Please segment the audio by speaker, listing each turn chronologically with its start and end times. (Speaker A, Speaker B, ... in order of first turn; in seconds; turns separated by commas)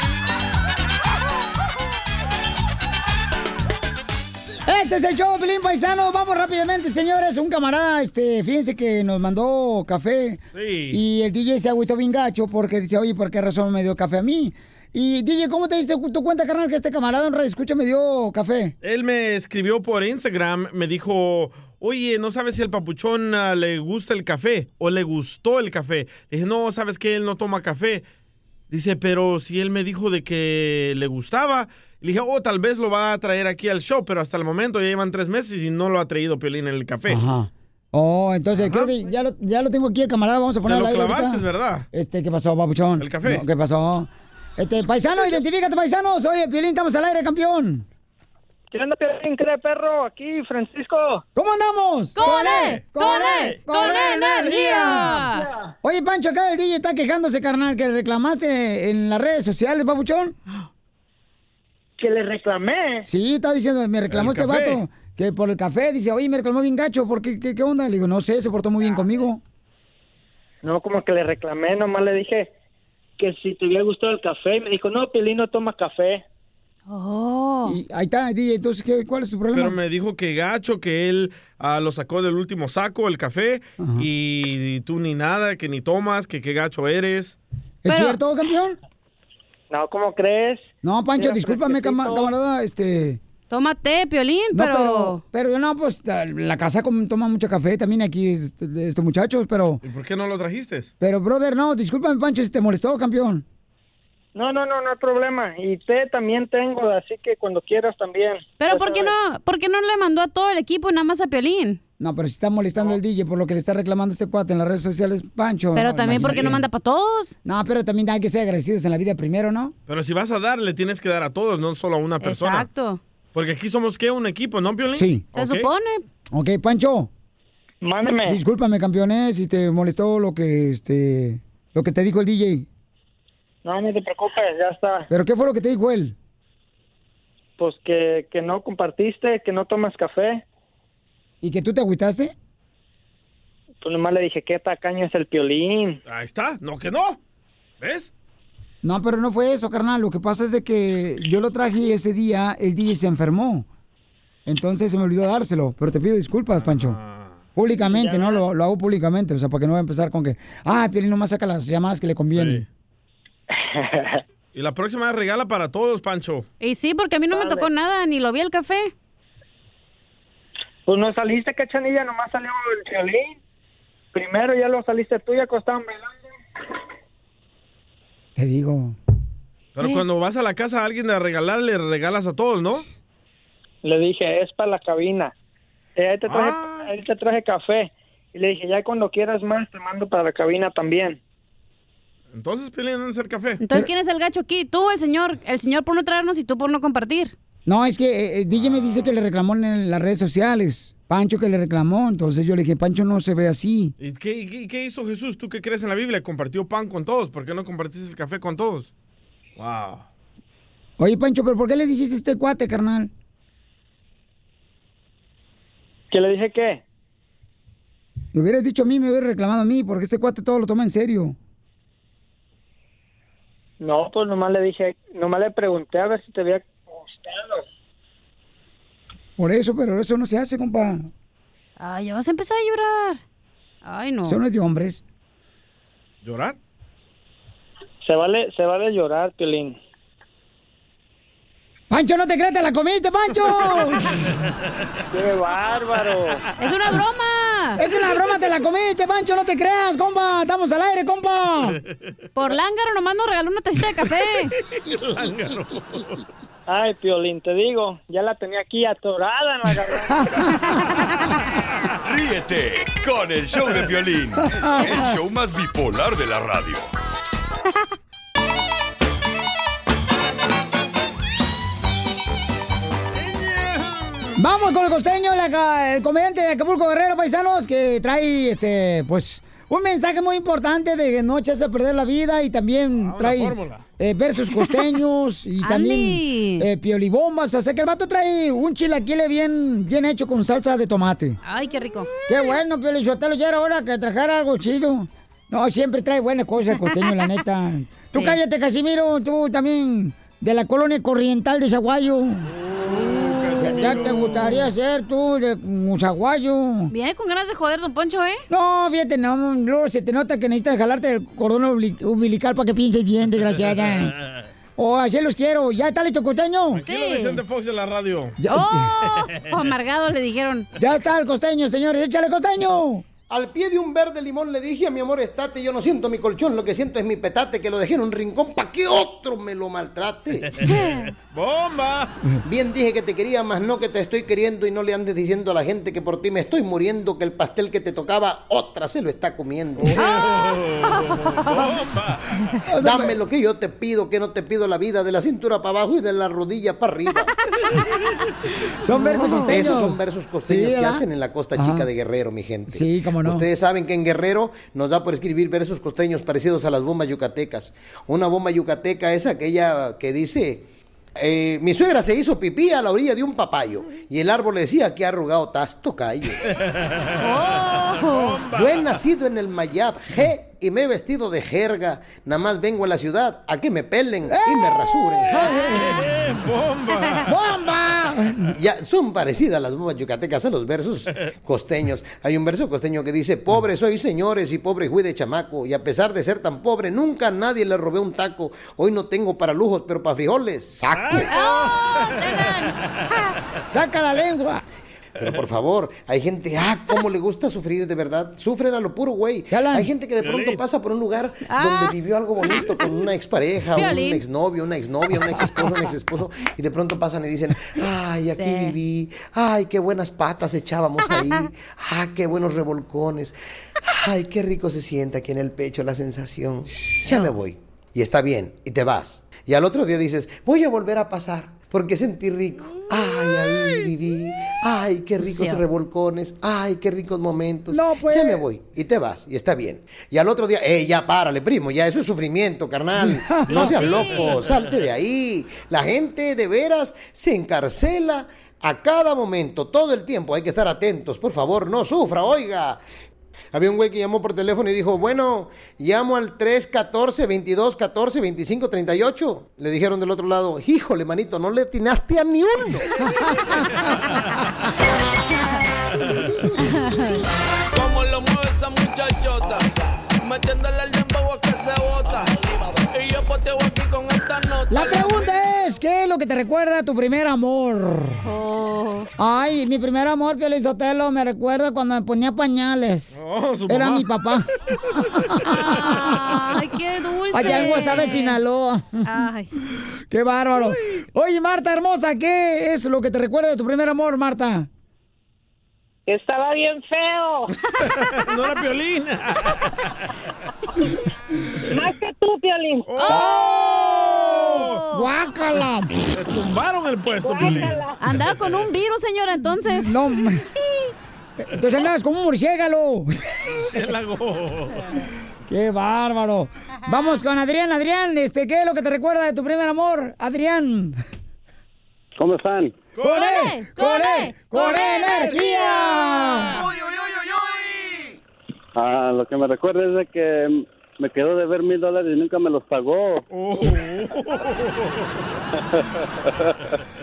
Speaker A: 4.7-18.7, Speaker B: 10.6-11.0, Speaker B: 18.8-28.1, Speaker B: 28.7-37.2, Speaker A: 37.1-47.8, Speaker B: 38.5-38.9, Speaker B: 40.7-41.9, Speaker B: 43.0-43.4, Speaker C: 48.7-51.2, Speaker A: 51.4-55.2, Speaker D: 52.1-55.5, Speaker B: 52.5-53.6, Speaker C: 55.3-55.7, Speaker A: 55.8-60.4, Speaker C: 62.0-63.1, Speaker A: 63.0-69.4, Speaker B: 64.1-64.8, Speaker C: 70.6-72.5, Speaker C: 73.2-76.2, Speaker D: 76.9-77.8, Speaker A: 77.6-79.8, Speaker B: 79.5-87.4, Speaker A: 83.8-84.1, Speaker A: 87.8-88.8, Speaker D: 87.9-88.2, Speaker C: 89.7-90.6, Speaker A: 90.8-93.2, Speaker C: 91.2-92.3, Speaker D: 93.5-95.2, Speaker A: 94.5-99.8, Speaker B: 99.8-100.9, Speaker A: 101.0-103.4, Speaker C: 104.3-109.1, Speaker D: 108.6-111.8, Speaker A: 112.0-116.6, Speaker D: 115.7-117.3, Speaker B: 116.2-116.6, Speaker A: 117.4-119.7, Speaker B: 119.9-122.7, Speaker D: 122.2-123.0, Speaker B: 123.3-125.7, Speaker A: 124.9-125.2, Speaker D: 125.3-126.0, Speaker A: 126.3-127.1, Speaker C: 127.8-128.4, Speaker A: 128.3-132.7, Speaker C: 133.6-135.1, Speaker A: 135.1-136.2, Speaker C: 137.6-140.4, Speaker A: 141.4-142.3, Speaker C: 143.8-146.0, Speaker B: 146.1-147.2, Speaker B: 147.8-148.1, Speaker A: 148.8-153.7, Speaker A: 154.4-157.0, Speaker B: 156.6-157.4, Speaker A: 157.6-162.7, Speaker C: 157.8-158.4, Speaker B: 162.3-162.7, Speaker C: 163.5-164.2, Speaker B: 164.5-166.4, Speaker D: 166.6-168.9, Speaker C: 167.3-167.7, Speaker C: 170.8-173.4, Speaker C: 174.1-176.3, Speaker A: 178.3-178.9, Speaker B: 179.8-182.8, Speaker C: 183.8-185.3, Speaker C: 185.9-191.2, Speaker B: 186.3-186.9, Speaker B: 192.3-193.6, Speaker D: 193.6-197.3, Speaker A: 197.7-203.9, Speaker B: 204.0-208.9, Speaker B: 209.6-210.1, Speaker A: 211.0-213.1, Speaker C: 216.1-216.8, Speaker A: 218.3-221.3, Speaker C: 223.8-227.7, Speaker A: 229.4-231.1, Speaker D: 231.8-233.2, Speaker D: 233.8-234.4, Speaker A: 234.2-235.0, Speaker B: 236.2-236.6, Speaker C: 238.0-239.8, Speaker A: 241.9-244.2, Speaker C: 245.1-246.4, Speaker D: 246.6-247.8, Speaker A: 247.8-251.8, Speaker D: 252.3-254.5, Speaker B: 254.7-256.2, Speaker C: 256.7-260.3, Speaker A: 260.2-260.4, Speaker E: 262.0-266.9, Speaker B: 273.3-274.2, Speaker A: 274.4-291.4, Speaker B: 283.0-283.8, Speaker D: 285.6-286.7, Speaker D: 291.4-292.1, Speaker A: 292.3-302.5, Speaker D: 298.1-298.4, Speaker B: 302.6-304.7, Speaker D: 303.2-303.5, Speaker A: 303.6-306.9, Speaker D: 306.9-308.4, Speaker A: 308.5-314.2, Speaker A: 314.8-316.8, Speaker B: 316.7-318.4, Speaker D: 316.9-317.4, Speaker A: 318.4-318.9, Speaker D: 318.5-320.7, Speaker B: 319.1-319.6, Speaker A: 320.8-323.1, Speaker F: 323.3-330.6, Speaker D: 330.6-331.1, Speaker B: 330.8-332.1, Speaker F: 332.4-340.0, Speaker B: 339.8-342.5, Speaker D: 339.9-341.7, Speaker A: 342.7-343.2, Speaker F: 342.8-347.3, Speaker A: 348.8-351.9, Speaker D: 348.9-349.6, Speaker F: 349.5-366.4, Speaker A: 352.7-353.5, Speaker B: 366.4-369.0, Speaker D: 367.2-368.4, Speaker F: 368.5-376.0, Speaker A: 374.3-375.9, Speaker B: 375.6-377.3, Speaker A: 377.2-378.6, Speaker F: 378.5-391.3, Speaker B: 390.9-392.4, Speaker D: 391.3-393.3, Speaker A: 393.7-394.6, Speaker F: 395.2-442.8, Speaker A: 399.5-399.9, Speaker B: 400.2-400.6, Speaker D: 401.4-401.9, Speaker D: 403.7-404.2, Speaker D: 408.3-408.8, Speaker D: 417.1-417.3, Speaker D: 425.2-425.6, Speaker A: 427.7-428.4, Speaker A: 433.0-434.2, Speaker D: 433.4-434.5, Speaker F: 443.5-453.0, Speaker A: 453.2-453.8, Speaker D: 456.6-457.2, Speaker G: 457.7-465.3, Speaker A: 464.7-468.2, Speaker D: 468.2-469.1, Speaker A: 469.2-473.2, Speaker B: 473.1-474.3, Speaker A: 473.7-474.5, Speaker B: 475.2-475.8, Speaker A: 475.4-476.3, Speaker D: 475.8-478.4, Speaker A: 477.3-479.0, Speaker D: 479.1-479.5, Speaker A: 480.1-484.7, Speaker H: 486.1-487.4, Speaker B: 488.0-489.8, Speaker H: 491.7-492.8, Speaker B: 492.9-494.8, Speaker D: 493.1-495.1, Speaker A: 494.9-496.1, Speaker B: 496.2-497.8, Speaker D: 498.0-500.0, Speaker A: 499.6-500.4, Speaker A: 501.4-503.5, Speaker B: 503.5-504.9, Speaker A: 505.5-511.0, Speaker D: 506.9-507.2, Speaker I: 512.1-512.8, Speaker B: 513.0-513.3, Speaker A: 513.0-516.6, Speaker D: 513.1-516.3, Speaker B: 517.0-517.4, Speaker I: 518.8-523.2, Speaker B: 523.3-525.1, Speaker I: 525.7-526.5